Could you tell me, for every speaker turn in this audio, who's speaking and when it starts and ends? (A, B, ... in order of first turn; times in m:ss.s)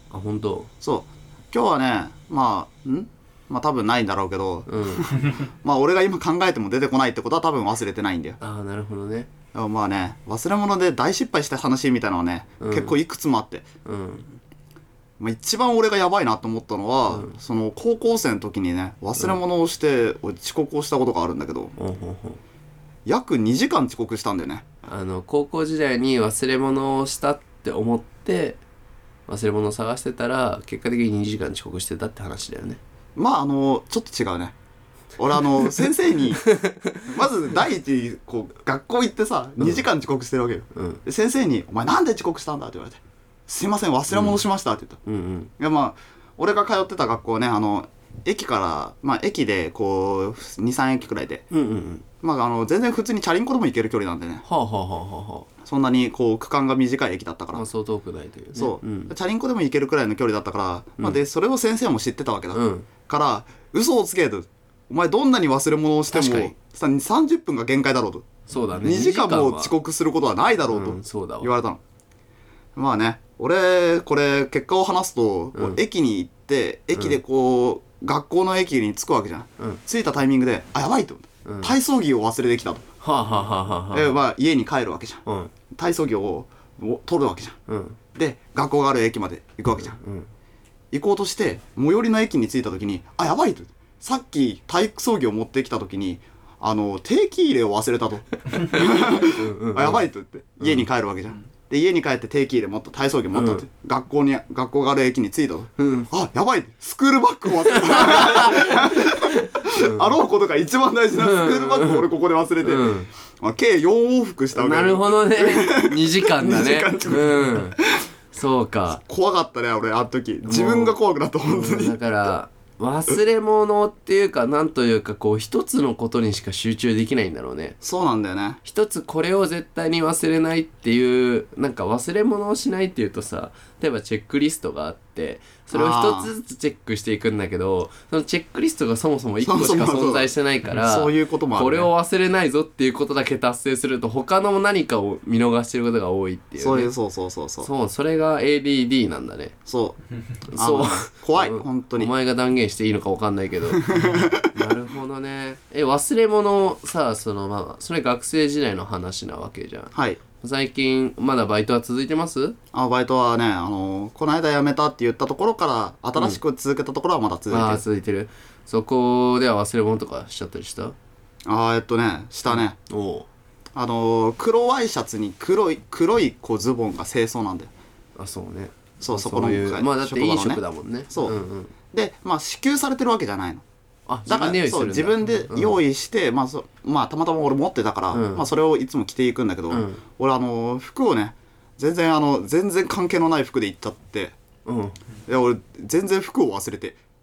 0:00.1-0:00.7 A
0:00.8-0:08.4 B
0:04.7-0:05.1 A
0:08.4-0:09.3 A
0:09.5-0:13.7 B
0:12.6-0:13.0 A
0:13.8-0:14.3 A
0:15.2-0:21.8 B
0:17.1-0:17.4 A
0:21.8-0:22.4 A
0:23.1-0:24.7 B
0:24.9-0:28.6 A
0:29.3-0:32.8 A
0:33.2-0:34.6 B
0:35.2-0:36.5 B
0:36.5-0:37.1 A
0:37.0-0:45.0 B
0:39.6-0:39.8 A
0:40.8-0:41.0 A
0:44.1-0:44.4 A
0:45.1-0:45.5 A
0:45.6-0:51.5 B
0:51.5-0:52.0 A
0:52.2-0:54.4 B
0:54.4-0:55.5 A
0:55.6-0:57.6 B
0:57.5-0:59.1 A
0:58.6-1:08.3 B
1:02.5-1:02.9 A
1:06.1-1:06.5 A
1:08.5-1:09.7 A
1:08.8-1:11.8 B
1:10.7-1:11.5 A
1:12.8-1:22.9 B
1:15.6-1:15.8 A
1:21.5-1:21.8 A
1:23.0-1:24.1 A
1:23.9-1:27.6 B
1:25.3-1:25.5 A
1:27.7-1:28.0 A
1:28.2-1:30.0 B
1:29.8-1:30.3 A
1:30.9-1:58.0 B
1:38.6-1:40.0 A
1:40.6-1:40.8 A
1:43.3-1:43.6 A
1:45.8-1:46.1 A
1:47.7-1:50.1 A
1:51.2-1:52.1 A
1:52.6-1:53.1 A
1:54.6-1:57.8 A
1:58.3-1:59.0 A
1:59.0-2:02.0 B
2:00.5-2:07.8 A
2:07.8-2:08.6 B
2:08.6-2:26.9 A
2:15.7-2:16.3 B
2:19.4-2:21.9 B
2:26.6-2:27.7 B
2:27.6-2:29.6 A
2:29.7-2:30.0 B
2:30.5-2:42.6 A
2:30.5-2:32.1 B
2:33.7-2:34.5 B
2:40.0-2:40.2 B
2:42.7-2:47.8 B
2:47.5-2:51.0 A
2:51.5-2:52.8 B
2:52.5-2:53.3 A
2:53.8-2:57.7 B
2:58.2-3:01.7 A
2:59.0-3:01.4 B
3:01.9-3:03.6 B
3:04.1-3:05.8 A
3:04.3-3:14.4 B
3:08.1-3:08.4 A
3:09.7-3:10.0 A
3:14.7-3:15.0 A
3:15.3-3:17.0 B